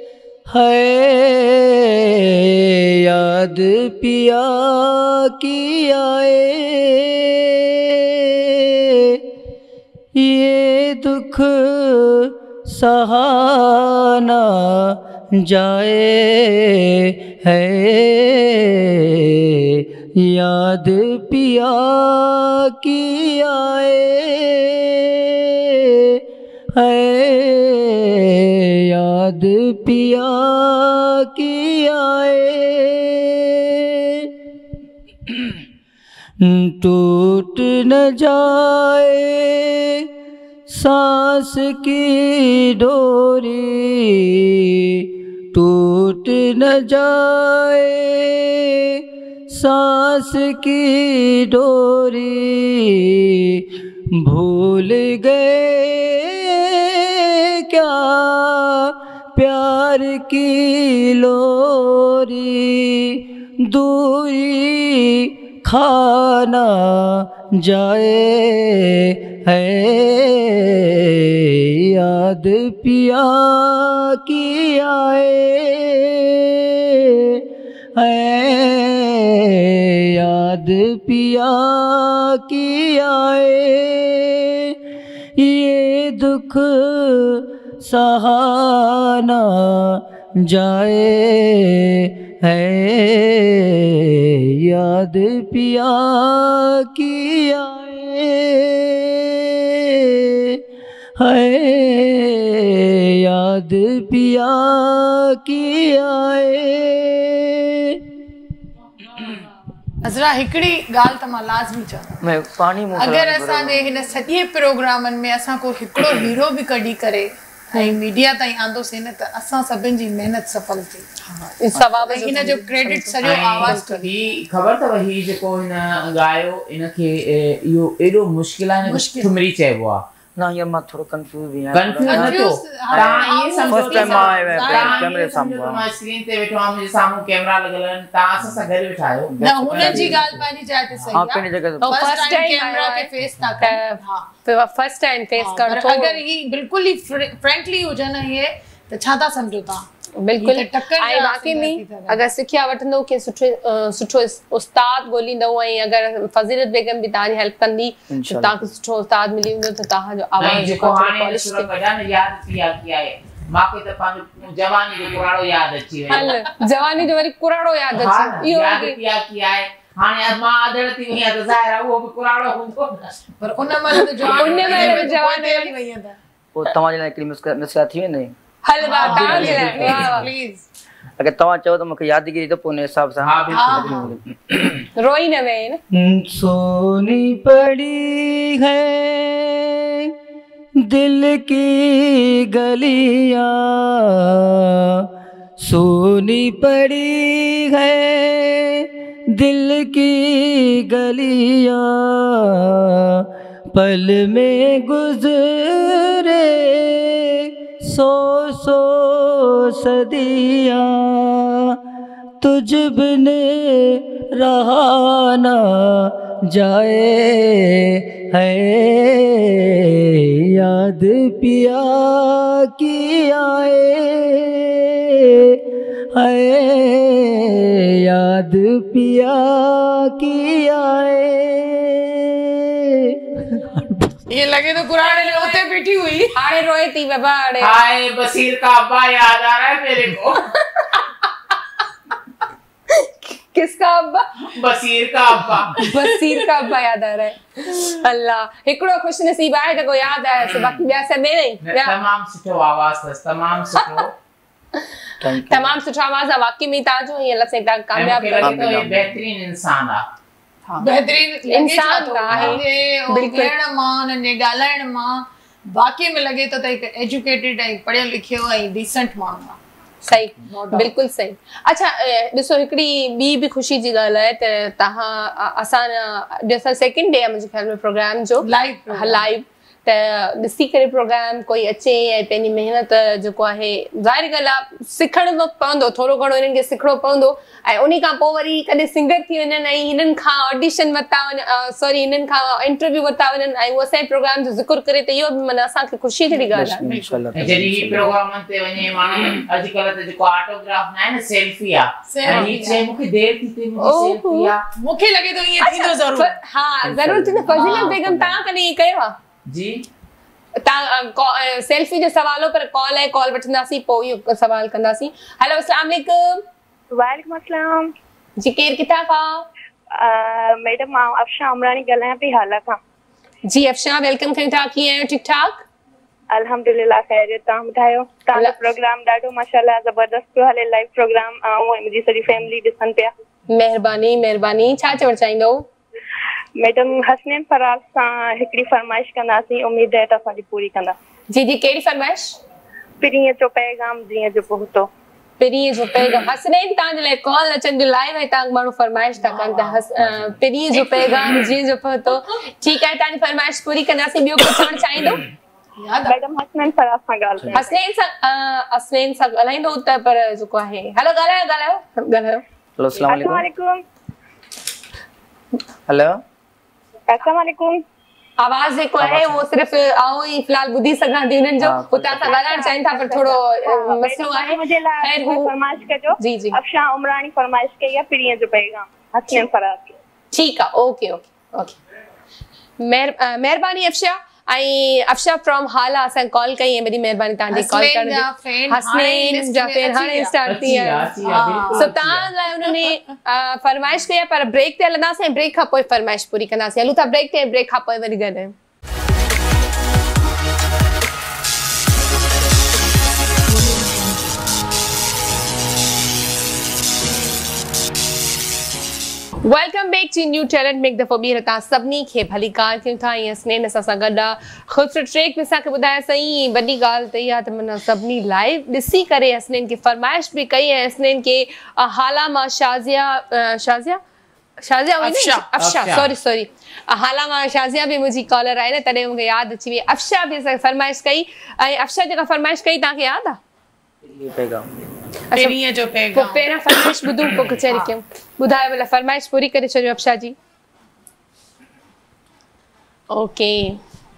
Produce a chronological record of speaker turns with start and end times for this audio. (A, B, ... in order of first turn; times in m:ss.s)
0:00.5-0:09.3 A
0:10.1-0:34.3 A
0:36.4-0:40.1 A
0:40.7-1:24.8 A
1:25.4-1:40.6 A
1:41.2-1:48.0 A
1:50.0-1:52.2 B
1:52.2-1:53.9 C
1:52.9-2:01.5 B
2:01.6-2:04.0 D
2:02.0-2:04.1 B
2:03.2-2:10.0 E
2:08.9-2:09.3 B
2:10.4-2:15.9 C
2:11.7-2:20.2 E
2:12.1-2:15.1 B
2:19.4-2:24.3 B
2:19.6-2:20.4 C
2:21.1-2:22.2 C
2:21.8-2:26.2 D
2:25.4-2:29.9 B
2:30.2-2:41.7 D
2:30.4-2:32.2 B
2:38.1-2:38.7 C
2:40.4-2:46.3 E
2:46.1-2:49.0 D
2:47.9-2:53.2 E
2:53.4-2:56.2 B
2:54.0-2:55.7 D
2:54.2-2:55.1 E
2:56.6-2:58.3 C
2:58.6-3:00.3 D
2:58.8-3:00.7 B
2:59.0-3:00.2 C
3:01.2-3:04.2 C
3:03.2-3:04.6 E
3:03.5-3:04.1 B
3:05.0-3:05.8 D
3:05.9-3:10.1 A
3:10.8-3:15.1 A
3:15.6-3:31.8 A
3:32.4-3:54.1 A
3:54.3-3:56.3 B
3:55.0-3:55.8 D
3:56.3-3:57.8 D
3:57.6-4:00.5 E
4:00.8-4:01.0 D
4:02.9-4:04.3 D
4:04.4-4:05.9 E
4:05.9-4:12.0 D
4:11.6-4:14.1 E
4:15.2-4:15.7 C
4:15.4-4:18.7 D
4:18.0-4:20.0 E
4:18.4-4:19.2 C
4:20.8-4:29.6 B
4:21.5-4:23.5 D
4:30.0-4:56.8 D
4:30.5-4:30.9 B
4:38.4-4:39.2 B
4:56.5-4:58.1 C
4:56.8-4:57.3 B
4:57.4-5:04.6 E
5:02.1-5:02.8 B
5:03.8-5:04.5 D
5:04.8-5:06.3 B
5:05.6-5:09.2 D
5:06.8-5:08.4 C
5:07.5-5:07.9 B
5:09.5-5:09.8 E
5:10.6-5:16.4 D
5:16.9-5:17.9 F
5:18.4-5:19.4 D
5:19.9-5:22.8 F
5:23.5-5:25.6 D
5:26.3-5:33.1 F
5:33.5-5:35.7 D
5:36.6-5:41.0 F
5:41.3-5:42.4 D
5:43.0-5:44.9 F
5:45.4-5:55.2 D
5:49.2-5:49.8 B
5:50.7-5:51.5 B
5:55.8-5:56.2 B
5:56.1-5:57.7 F
5:57.5-6:02.4 D
6:02.8-6:03.5 C
6:03.1-6:03.8 F
6:05.9-6:06.2 C
6:07.1-6:07.8 F
6:08.4-6:15.5 D
6:09.0-6:09.4 C
6:11.6-6:12.4 C
6:12.2-6:20.0 F
6:16.2-6:16.6 D
6:20.3-6:21.8 D
6:22.8-6:31.1 D
6:27.5-6:30.3 B
6:30.5-6:32.3 E
6:31.2-6:31.9 B
6:31.7-6:38.5 D
6:43.5-6:44.2 B
6:49.4-7:04.0 D
7:04.6-7:13.4 D
7:05.0-7:05.5 B
7:05.6-7:06.1 E
7:14.0-7:14.9 C
7:15.3-7:15.6 D
7:15.4-7:17.9 B
7:16.1-7:20.4 D
7:23.1-7:23.8 D